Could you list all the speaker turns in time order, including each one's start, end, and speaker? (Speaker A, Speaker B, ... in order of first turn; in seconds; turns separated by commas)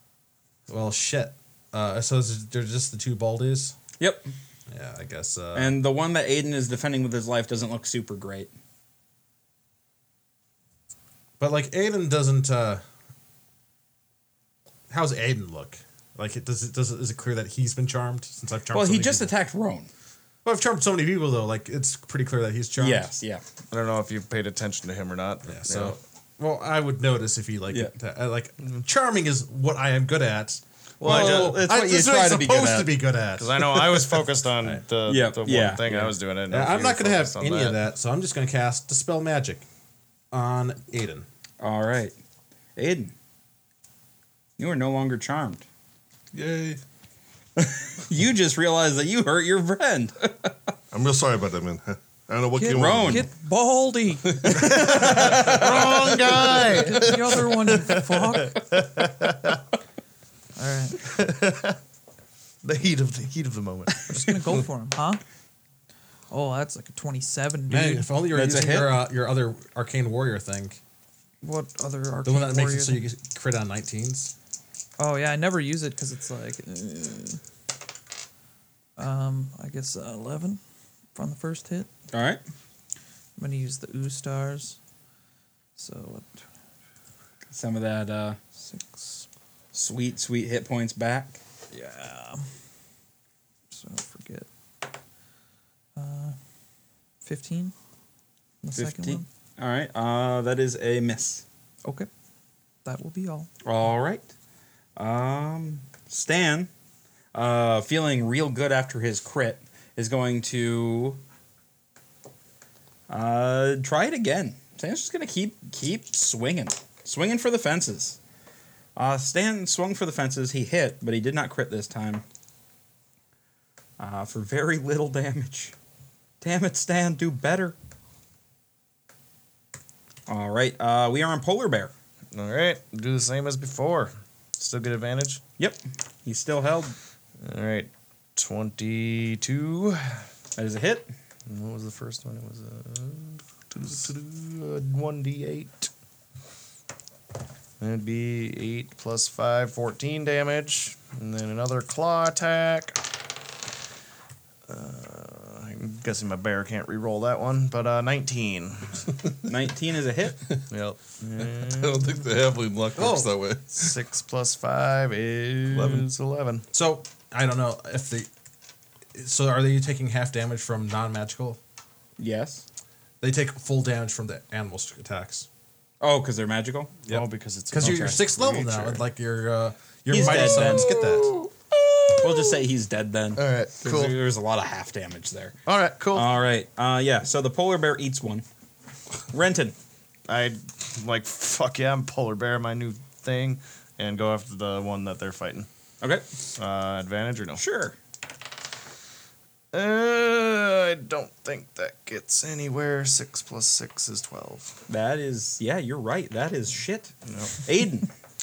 Speaker A: 0.7-3.8, Speaker B: 4.0-4.3, Speaker A: 4.7-5.8, Speaker B: 5.5-8.5, Speaker A: 11.4-12.8, Speaker A: 14.9-19.3, Speaker B: 18.7-19.9, Speaker A: 20.4-23.1, Speaker B: 22.8-23.4, Speaker C: 23.7-26.0, Speaker A: 25.5-34.8, Speaker B: 31.0-32.9, Speaker C: 31.0-31.6, Speaker C: 33.4-37.8, Speaker B: 35.1-36.1, Speaker A: 36.5-39.6, Speaker A: 40.3-41.3, Speaker B: 41.6-42.1, Speaker B: 42.8-43.1, Speaker B: 44.6-45.6, Speaker D: 46.3-46.8, Speaker B: 47.6-50.5, Speaker D: 50.9-53.3, Speaker E: 52.5-54.7, Speaker B: 52.7-53.3, Speaker B: 54.4-56.4, Speaker D: 54.5-55.3, Speaker C: 54.5-59.6, Speaker E: 56.6-58.6, Speaker E: 60.6-61.1, Speaker C: 61.0-61.8, Speaker C: 62.6-64.1, Speaker E: 64.1-65.2, Speaker E: 66.3-68.1, Speaker A: 67.7-70.8, Speaker B: 68.3-69.0, Speaker E: 71.4-73.0, Speaker A: 72.2-74.3, Speaker E: 75.0-77.4, Speaker E: 79.0-80.6, Speaker E: 81.2-81.9, Speaker B: 82.1-82.4, Speaker E: 83.4-84.8, Speaker E: 85.8-86.4, Speaker B: 87.5-88.4, Speaker E: 88.6-89.3, Speaker B: 89.7-91.4, Speaker E: 91.7-92.5, Speaker E: 93.7-94.5, Speaker E: 96.0-96.4, Speaker E: 97.2-97.7, Speaker E: 98.6-99.3, Speaker B: 98.8-101.5, Speaker E: 102.8-103.5, Speaker B: 103.7-104.3, Speaker B: 105.0-106.7, Speaker B: 107.3-111.2, Speaker B: 113.1-118.2, Speaker B: 119.0-122.2, Speaker B: 124.0-125.8, Speaker B: 126.4-127.8, Speaker B: 130.3-131.9, Speaker C: 132.3-135.4, Speaker B: 135.6-136.9, Speaker C: 137.4-140.3, Speaker B: 140.6-141.1, Speaker C: 141.5-145.9, Speaker C: 147.8-153.0, Speaker C: 154.7-159.1, Speaker B: 159.5-160.4, Speaker C: 160.7-162.2, Speaker D: 161.4-163.9, Speaker A: 163.0-163.3, Speaker C: 163.7-166.7, Speaker D: 165.7-166.1, Speaker A: 166.7-168.3, Speaker A: 169.1-171.6, Speaker B: 172.2-172.7, Speaker A: 173.2-175.5, Speaker B: 176.0-177.0, Speaker C: 177.1-179.0, Speaker A: 177.1-181.3, Speaker B: 177.8-178.1, Speaker B: 180.1-180.9, Speaker C: 180.3-182.6, Speaker B: 182.2-185.6, Speaker C: 183.4-184.2, Speaker C: 185.7-186.3, Speaker B: 186.1-188.4, Speaker B: 189.3-189.8, Speaker C: 190.3-195.7, Speaker C: 196.6-197.6, Speaker B: 197.6-197.9, Speaker C: 199.7-204.8, Speaker B: 204.9-207.1, Speaker C: 207.3-207.6, Speaker B: 207.6-208.1